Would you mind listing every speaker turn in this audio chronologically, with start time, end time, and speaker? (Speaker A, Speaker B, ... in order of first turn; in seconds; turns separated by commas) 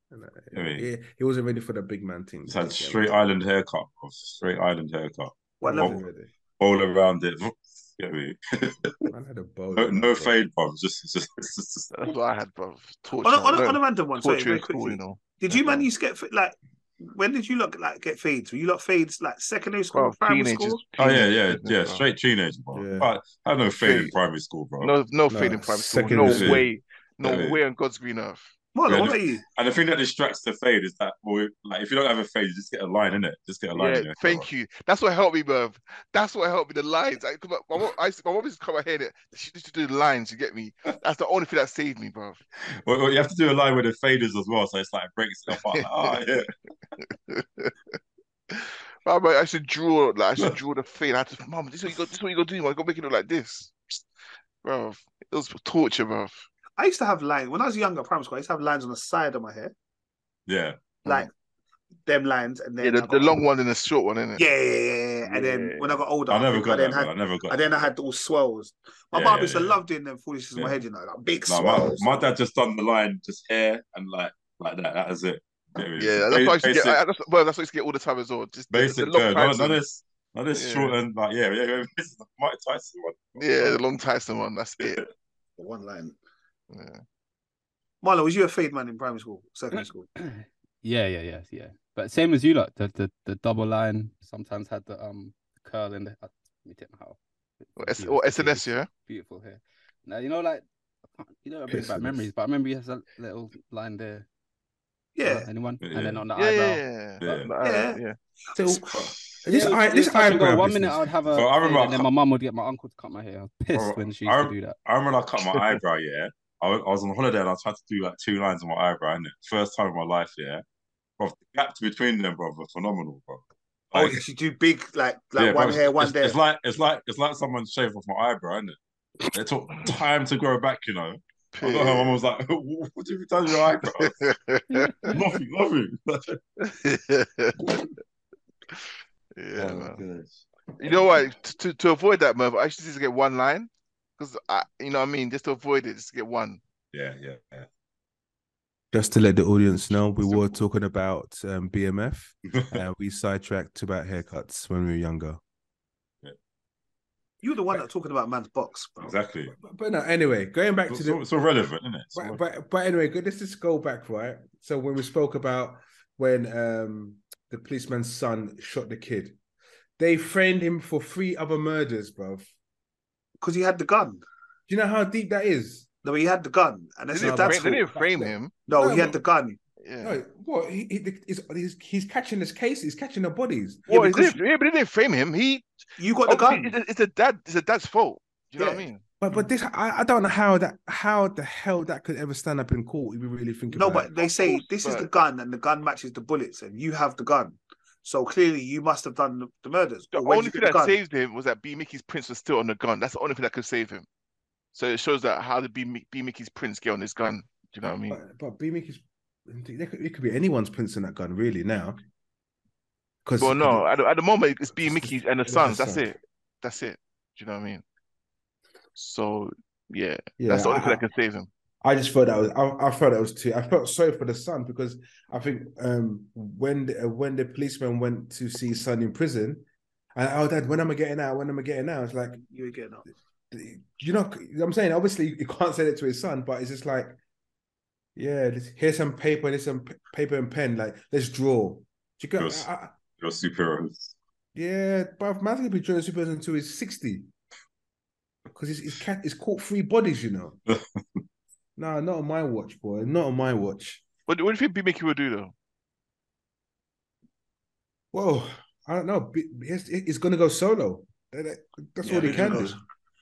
Speaker A: 0.1-3.2, Speaker B: 0.5-0.8, Speaker B: 2.5-6.0, Speaker A: 5.6-6.3, Speaker C: 5.6-6.0, Speaker B: 6.6-9.1, Speaker A: 9.1-10.4, Speaker B: 9.8-11.9, Speaker D: 11.9-15.9, Speaker C: 13.2-20.8, Speaker D: 19.9-22.0, Speaker B: 21.0-24.9, Speaker A: 22.7-23.1, Speaker D: 23.8-24.1, Speaker D: 24.8-28.5, Speaker A: 25.3-26.7, Speaker B: 26.2-26.6, Speaker B: 27.2-27.6, Speaker C: 28.7-29.4, Speaker B: 28.9-34.5, Speaker D: 33.7-42.4, Speaker B: 42.7-46.5, Speaker D: 45.5-46.2, Speaker D: 47.0-47.7, Speaker D: 48.5-54.0, Speaker D: 54.6-56.5, Speaker C: 56.8-59.7, Speaker B: 60.5-61.0, Speaker C: 62.0-63.4, Speaker D: 62.8-64.5, Speaker C: 64.4-72.3, Speaker D: 65.2-66.0, Speaker B: 66.3-67.8, Speaker B: 69.1-69.8, Speaker B: 71.5-77.0, Speaker D: 76.0-79.8, Speaker B: 78.7-83.8, Speaker D: 80.5-81.0, Speaker D: 83.4-85.0, Speaker C: 85.6-86.2, Speaker D: 86.7-87.0, Speaker C: 88.0-90.1, Speaker E: 90.2-104.3, Speaker D: 97.8-98.9, Speaker A: 101.7-102.3, Speaker C: 105.2-105.5, Speaker E: 105.2-106.8, Speaker B: 105.8-106.2, Speaker D: 106.3-108.2, Speaker B: 107.2-107.5, Speaker C: 107.6-108.0, Speaker A: 108.5-111.0, Speaker C: 108.6-109.1, Speaker B: 108.9-109.2, Speaker E: 109.5-114.8, Speaker B: 111.3-112.1, Speaker B: 113.7-120.6, Speaker D: 115.5-115.8, Speaker B: 121.2-124.2, Speaker C: 123.9-126.4, Speaker B: 125.4-128.8, Speaker B: 129.3-134.2, Speaker D: 131.5-132.2, Speaker D: 133.8-135.2, Speaker B: 135.0-136.4, Speaker D: 136.6-137.9, Speaker D: 138.7-140.0, Speaker B: 139.6-141.2, Speaker D: 140.8-146.6, Speaker B: 146.9-147.7, Speaker A: 148.9-155.4, Speaker C: 157.4-159.2, Speaker B: 159.0-159.5, Speaker A: 159.6-161.2, Speaker B: 160.9-162.4, Speaker A: 162.1-169.4, Speaker A: 170.0-172.5, Speaker C: 173.4-174.2, Speaker A: 174.7-175.8, Speaker C: 176.0-177.9, Speaker D: 177.1-178.5, Speaker A: 177.2-179.2, Speaker C: 178.7-179.6, Speaker D: 179.8-180.2, Speaker A: 180.0-184.0, Speaker D: 183.9-185.7, Speaker C: 183.9-184.3, Speaker C: 186.0-186.7, Speaker D: 186.2-189.0, Speaker C: 188.6-188.8, Speaker A: 189.2-194.1, Speaker C: 193.7-201.0, Speaker D: 194.2-195.1, Speaker D: 200.1-204.1, Speaker D: 204.7-208.2, Speaker A: 208.1-212.0, Speaker A: 213.2-213.8, Speaker D: 213.4-217.8, Speaker A: 214.8-216.1, Speaker D: 218.9-221.5, Speaker A: 220.4-221.0, Speaker A: 221.8-232.4, Speaker C: 232.4-233.0, Speaker A: 233.5-237.2, Speaker A: 238.2-242.9, Speaker B: 242.4-244.1, Speaker A: 244.5-247.3, Speaker A: 248.5-250.6, Speaker B: 250.7-251.0, Speaker A: 251.8-254.0, Speaker D: 254.3-255.5, Speaker A: 258.1-262.8, Speaker C: 262.0-262.8, Speaker D: 262.1-262.8